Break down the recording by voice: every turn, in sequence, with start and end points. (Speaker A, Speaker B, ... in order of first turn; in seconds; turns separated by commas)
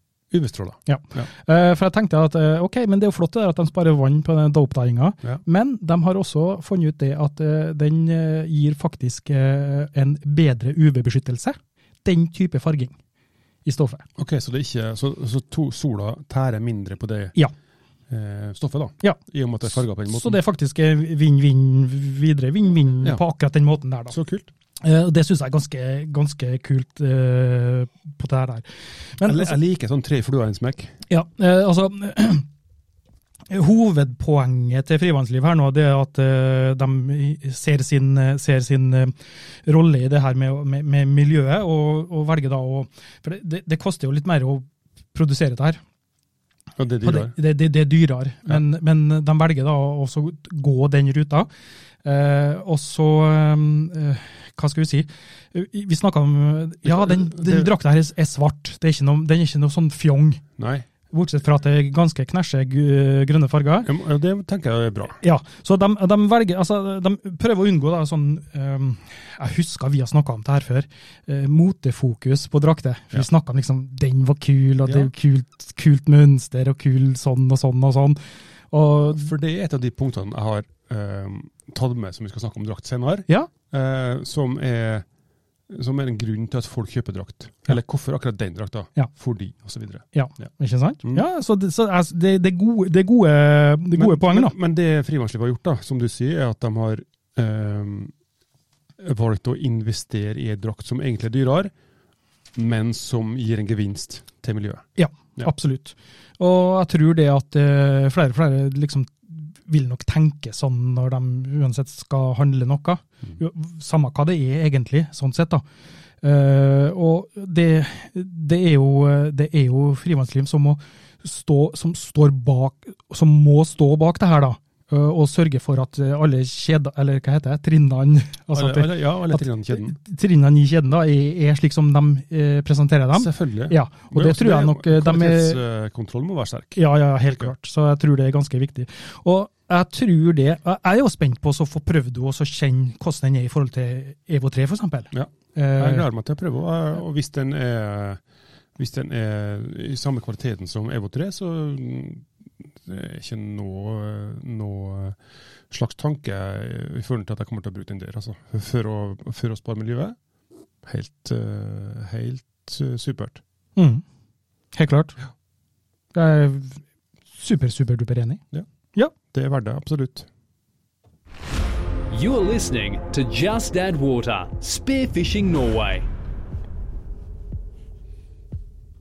Speaker A: 0.3-1.3, Speaker B: 0.9-13.0, Speaker B: 13.7-14.1, Speaker A: 14.2-17.4, Speaker A: 18.1-20.4, Speaker B: 20.1-24.2, Speaker A: 24.1-24.5, Speaker B: 24.8-29.6, Speaker A: 29.2-30.9, Speaker B: 31.1-32.5, Speaker B: 33.5-39.1, Speaker B: 39.7-45.8, Speaker A: 46.8-47.4, Speaker B: 47.0-51.5, Speaker B: 52.0-60.4, Speaker A: 56.9-57.7, Speaker A: 60.6-60.9, Speaker B: 61.1-63.9, Speaker A: 63.8-65.2, Speaker B: 65.2-78.2, Speaker A: 74.8-75.1, Speaker B: 78.7-79.3, Speaker A: 79.0-85.1, Speaker A: 85.7-90.5, Speaker B: 90.1-94.5, Speaker A: 94.0-98.1, Speaker A: 99.0-101.7, Speaker A: 102.6-105.5, Speaker B: 105.0-115.6, Speaker B: 116.2-135.6, Speaker A: 128.5-130.0, Speaker A: 133.1-136.8, Speaker B: 136.8-146.1, Speaker A: 145.1-148.2, Speaker A: 148.8-155.2, Speaker A: 155.7-160.2, Speaker A: 160.8-163.4, Speaker B: 163.8-164.0, Speaker B: 164.7-165.2, Speaker B: 166.1-166.8, Speaker B: 167.3-168.4, Speaker A: 169.3-170.3, Speaker C: 172.1-176.1